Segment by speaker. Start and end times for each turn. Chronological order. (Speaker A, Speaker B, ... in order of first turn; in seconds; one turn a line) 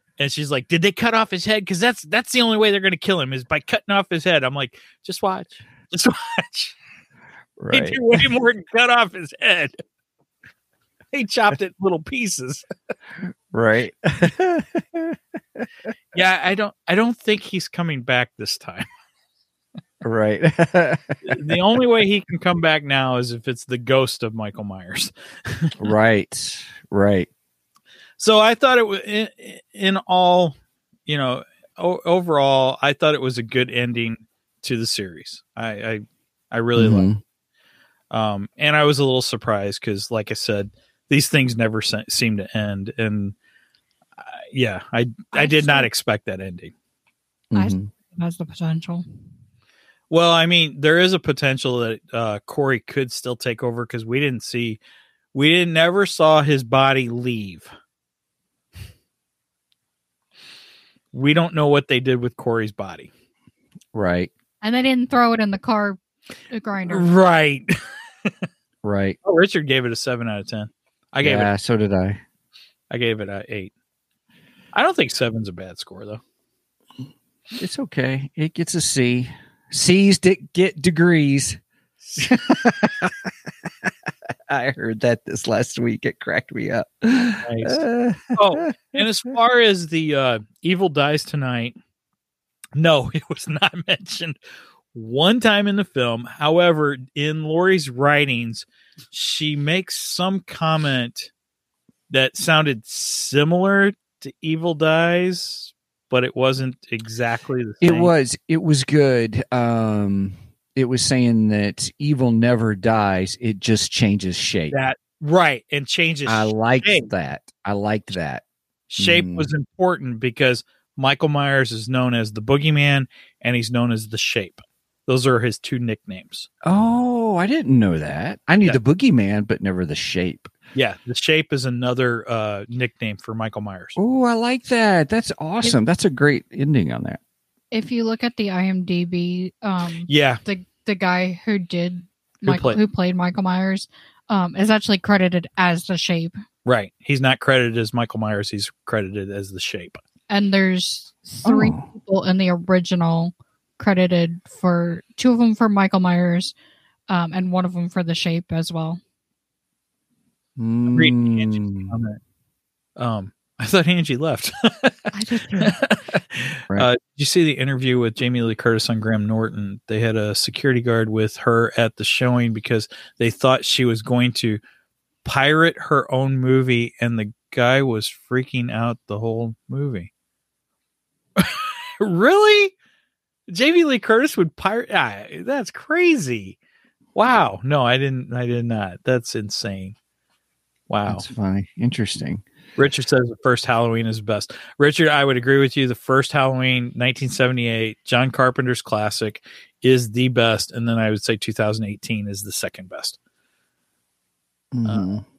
Speaker A: 0.2-6.8
Speaker B: 7.6-8.0
Speaker A: 7.7-9.8
Speaker A: 11.1-12.7
Speaker B: 13.5-15.7
Speaker A: 16.1-18.9
Speaker B: 20.0-21.2
Speaker A: 21.2-25.8
Speaker B: 25.8-27.3
Speaker A: 28.2-37.1
Speaker B: 36.8-37.2
Speaker A: 38.1-43.4
Speaker A: 44.3-46.7
Speaker C: 45.3-45.9
Speaker B: 47.5-47.9
Speaker C: 47.5-49.0
Speaker A: 50.1-54.8
Speaker A: 55.3-57.7
Speaker A: 61.1-63.1
Speaker B: 63.9-64.3
Speaker C: 64.6-66.0
Speaker C: 66.5-67.1
Speaker A: 66.9-67.7
Speaker B: 68.8-69.2
Speaker A: 69.2-71.5
Speaker B: 71.2-72.2
Speaker A: 72.9-73.7
Speaker A: 74.7-76.2
Speaker B: 77.6-81.6
Speaker B: 82.2-83.3
Speaker B: 84.5-89.0
Speaker A: 87.4-87.8
Speaker A: 88.3-91.8
Speaker A: 92.8-94.4
Speaker A: 94.9-101.3
Speaker A: 102.1-108.1
Speaker B: 107.8-114.8
Speaker A: 114.7-117.1
Speaker B: 116.3-118.4
Speaker A: 118.9-126.5
Speaker B: 119.0-119.5
Speaker B: 126.6-130.5
Speaker A: 130.8-134.0
Speaker B: 134.0-137.2
Speaker C: 137.7-146.3
Speaker A: 140.1-140.4
Speaker A: 142.4-142.8
Speaker A: 146.7-150.0
Speaker C: 150.3-156.5
Speaker B: 151.4-151.9
Speaker C: 157.1-159.0
Speaker B: 160.6-161.9
Speaker A: 160.9-162.2
Speaker A: 163.0-174.6
Speaker C: 165.1-165.8
Speaker A: 175.2-180.1
Speaker A: 181.4-182.7
Speaker A: 183.5-186.6
Speaker A: 187.2-190.0
Speaker A: 190.9-191.2
Speaker B: 191.1-192.4
Speaker A: 192.8-203.2
Speaker B: 204.7-205.2